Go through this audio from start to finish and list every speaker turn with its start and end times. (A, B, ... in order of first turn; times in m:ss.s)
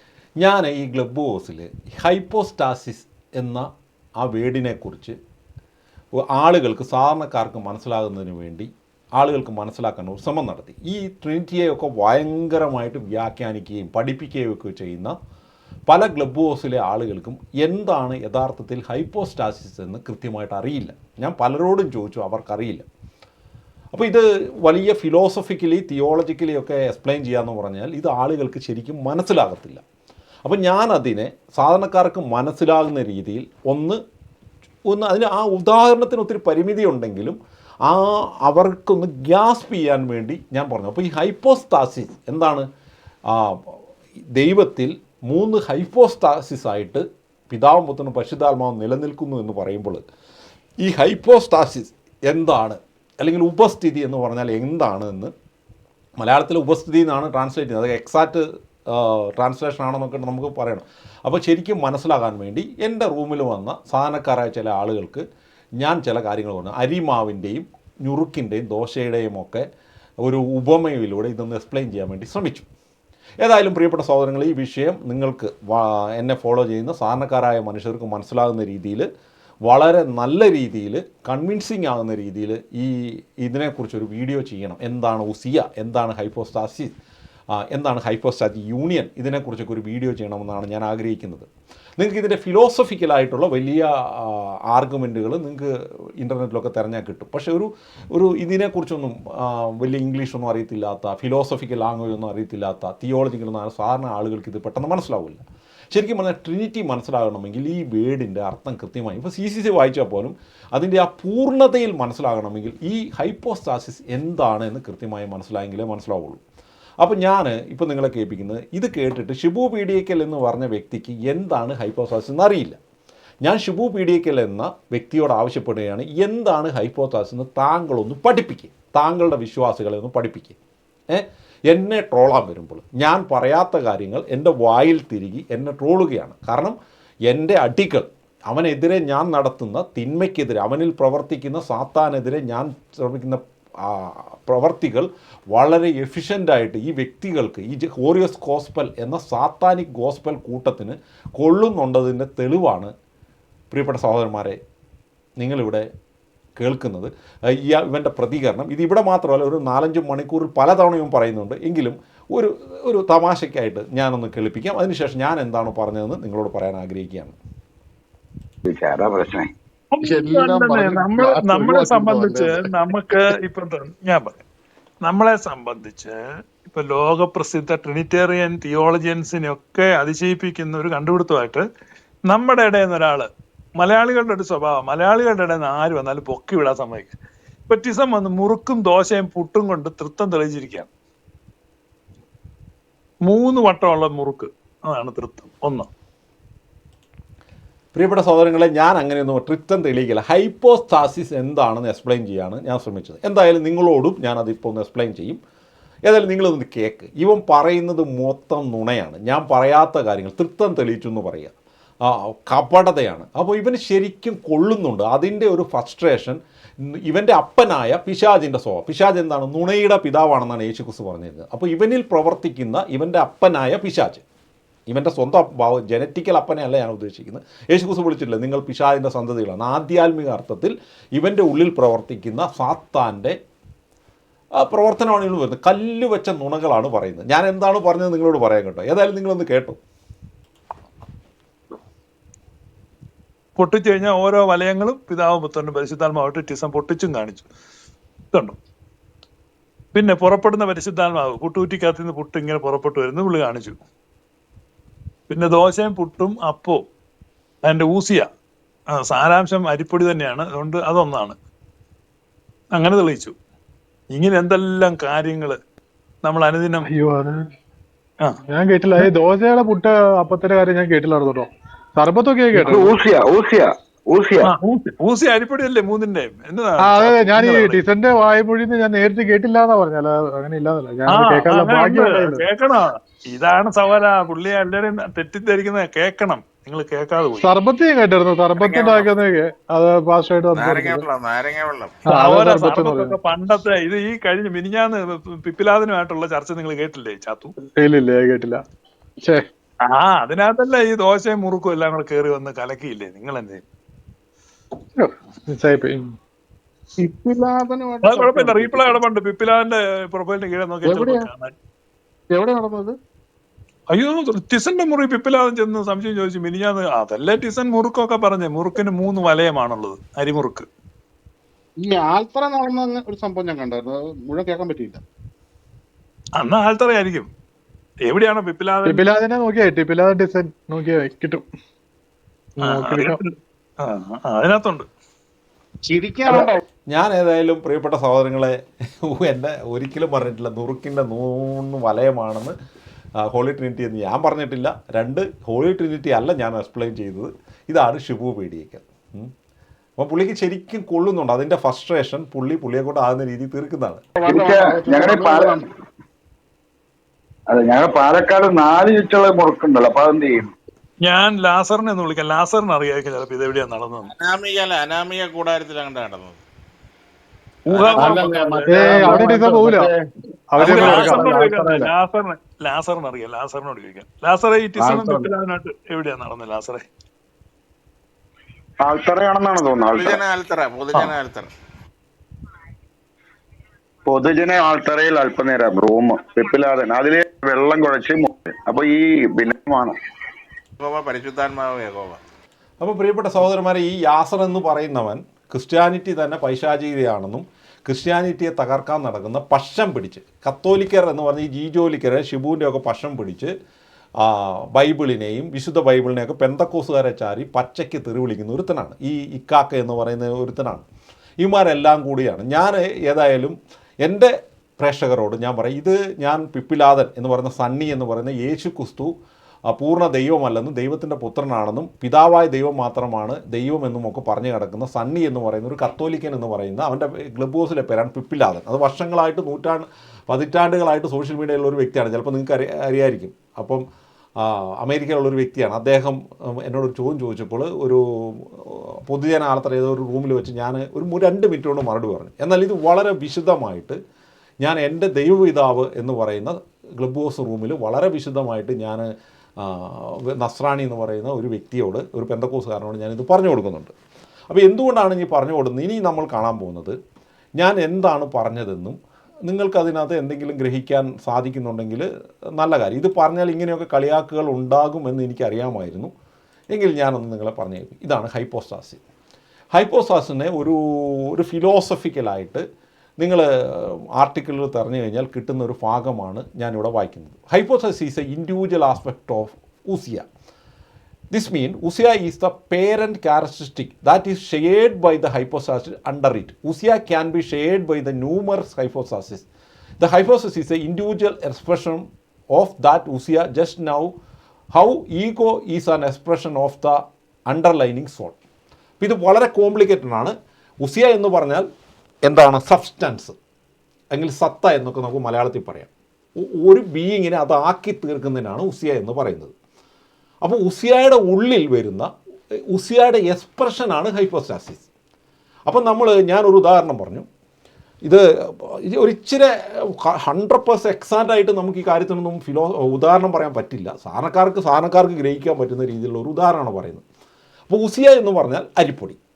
0:00.4-0:03.7 A
0:04.2-0:05.2 A
0:06.3-0:15.1 A
0:15.9-0:22.8 A
0:23.9-0:29.8 A
0:30.4-0:34.0 A
0:34.9-0:42.7 A
0:43.3-0:43.8 A
0:44.4-0:50.0 A
0:50.8-0:55.3 A
0:56.2-1:05.2 A
1:05.8-1:09.7 A
1:10.2-1:12.7 A
1:13.4-1:19.1 A
1:19.7-1:26.9 A
1:27.5-1:56.4 A
1:57.0-2:02.8 A
2:03.4-2:10.6 A
2:11.1-2:16.8 A
2:17.3-2:32.9 A
2:33.7-2:34.6 A
2:35.4-2:35.9 A
2:36.6-2:47.4 A
2:48.6-2:49.5 B
2:49.9-2:54.4 C
2:50.0-2:52.6 D
2:55.0-3:01.6 C
3:02.3-3:03.3 C
3:03.8-3:07.1 C
3:07.7-3:10.9 C
3:13.2-3:15.9 C
3:17.9-3:25.4 A
3:26.1-3:44.2 A
3:44.9-3:53.4 A
3:54.6-3:59.8 A
4:03.6-4:07.5 C
4:08.3-4:08.6 C
4:09.9-4:13.8 C
4:15.3-4:16.8 C
4:17.6-4:18.3 C
4:18.9-4:21.4 C
4:22.7-4:23.4 C
4:24.1-4:25.6 C
4:26.2-4:26.9 C
4:26.8-4:27.4 E
4:28.5-4:33.0 E
4:32.5-4:34.5 B
4:34.4-4:37.8 C
4:36.8-4:42.4 E
4:41.1-4:47.5 C
4:47.4-4:51.0 E
4:48.6-4:49.1 F
4:50.5-4:52.0 F
4:52.0-4:53.2 E
4:52.0-4:57.5 C
4:57.8-4:58.6 E
4:59.9-5:03.6 C
5:05.0-5:06.1 E
5:07.0-5:09.0 D
5:08.0-5:11.5 C
5:10.8-5:11.3 D
5:12.3-5:13.0 D
5:13.9-5:20.7 C
5:21.8-5:25.0 D
5:26.4-5:27.3 C
5:28.0-5:29.0 C
5:28.8-5:31.4 E
5:32.6-5:33.2 E
5:32.6-5:33.3 C
5:33.8-5:34.9 C
5:35.9-5:36.6 D
5:36.9-5:42.5 A
5:43.2-5:49.3 A
5:50.0-5:54.0 A
5:54.2-5:55.6 D
5:54.2-5:55.6 B
5:57.5-6:00.5 B
6:01.0-6:04.1 C
6:04.1-6:06.4 F
6:07.7-6:09.3 C
6:07.7-6:08.7 F
6:08.1-6:09.9 D
6:08.7-6:09.9 E
6:10.5-6:11.9 E
6:10.6-6:11.3 F
6:10.6-6:16.8 C
6:18.8-6:20.2 B
6:19.9-6:21.5 F
6:24.0-6:30.0 B
6:30.8-6:32.2 F
6:32.8-6:43.5 A
6:44.2-6:50.8 A
6:51.4-6:59.1 A
6:59.7-7:13.8 A
7:14.4-7:24.0 A
7:24.6-7:29.1 A
7:29.6-7:33.9 A
7:34.5-7:37.0 A
7:37.6-7:46.1 A
7:46.7-7:49.0 A
7:49.7-7:52.6 A
7:53.2-8:00.2 A
8:01.3-8:09.4 A
8:10.0-8:14.1 A
8:14.7-8:17.0 A
8:17.5-8:18.4 A
8:19.0-8:21.6 A
8:22.2-8:23.4 A
8:24.1-8:29.5 A
8:30.4-8:32.1 A
8:32.7-8:34.8 A
8:35.7-8:37.2 A
8:38.0-8:47.0 A
8:47.7-8:49.2 A